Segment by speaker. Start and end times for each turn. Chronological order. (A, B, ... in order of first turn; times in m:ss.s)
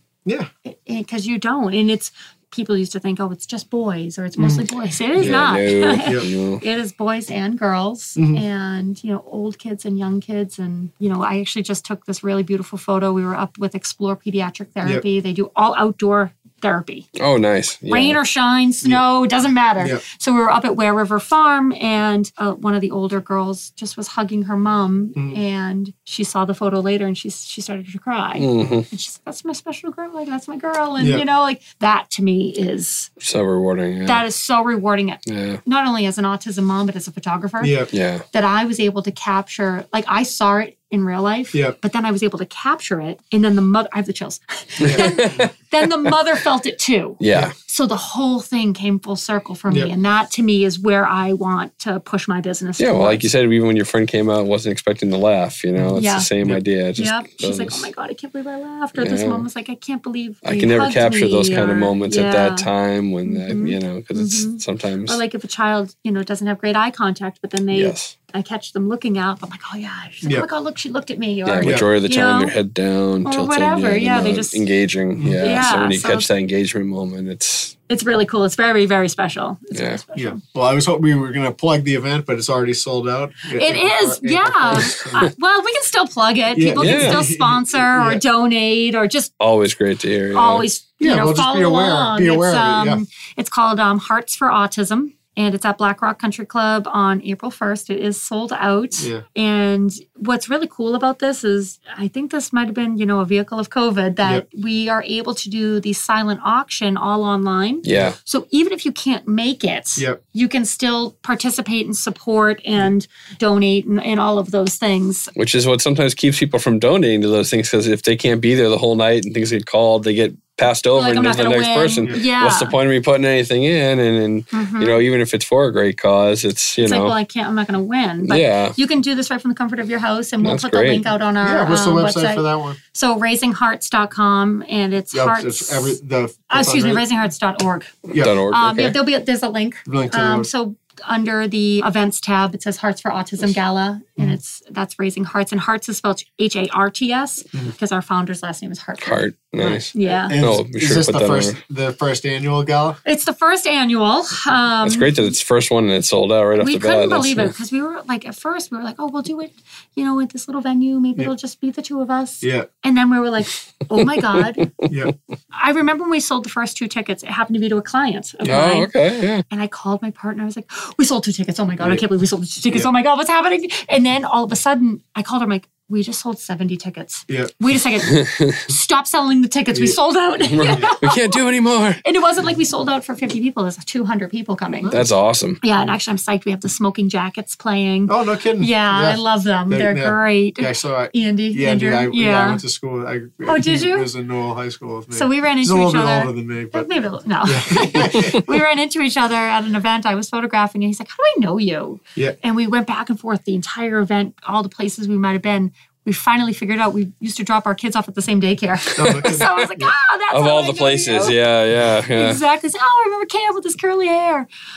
0:00.6-0:17.1 A
0:04.4-0:05.4 B
0:05.2-0:06.6 C
0:08.2-0:08.4 B
0:17.2-0:18.2 C
0:17.9-0:33.1 A
0:28.4-0:28.9 C
0:33.2-0:34.2 C
0:34.0-0:53.2 A
0:35.2-0:35.6 C
0:37.6-0:37.9 B
0:37.9-0:38.2 C
0:44.8-0:45.2 B
0:44.8-0:45.5 C
0:47.2-0:47.5 C
0:52.8-0:57.9 C
0:55.8-0:56.6 B
0:55.9-0:56.3 A
0:57.0-1:02.7 A
0:59.0-0:59.4 C
1:00.4-1:05.2 C
1:03.2-1:12.5 A
1:07.7-1:08.1 C
1:11.4-1:17.8 C
1:13.2-1:14.6 A
1:15.2-1:15.6 B
1:15.4-1:16.3 A
1:17.9-1:20.4 A
1:19.7-1:20.0 C
1:20.1-1:25.3 B
1:23.5-1:29.3 A
1:26.5-1:28.2 B
1:26.8-1:27.2 C
1:29.4-1:30.7 C
1:30.3-1:55.3 A
1:31.0-1:33.0 B
1:39.0-1:39.2 B
1:47.8-1:48.1 C
1:55.4-2:07.1 C
2:00.9-2:02.8 A
2:04.5-2:05.0 A
2:06.8-2:16.0 A
2:08.2-2:08.8 C
2:10.4-2:11.1 C
2:11.4-2:12.8 B
2:15.1-2:17.0 B
2:16.5-2:29.2 A
2:18.1-2:19.0 C
2:19.8-2:20.5 B
2:29.0-2:31.6 C
2:29.6-2:33.0 B
2:29.9-2:30.4 A
2:33.0-2:35.3 A
2:34.8-2:37.5 C
2:36.6-2:44.7 A
2:42.4-2:42.7 B
2:44.6-2:45.1 C
2:45.5-2:48.9 A
2:48.4-2:49.4 C
2:49.5-3:01.4 A
2:57.3-2:57.5 B
2:58.1-2:58.6 C
3:00.5-3:02.0 C
3:00.6-3:00.9 B
3:02.0-3:05.0 A
3:04.8-3:05.0 B
3:04.9-3:05.6 C
3:05.6-3:12.6 A
3:08.1-3:16.9 B
3:13.4-3:14.1 A
3:15.1-3:31.4 A
3:17.4-3:18.4 B
3:29.0-3:29.5 C
3:29.0-3:29.9 B
3:30.3-3:32.4 C
3:32.1-3:34.5 A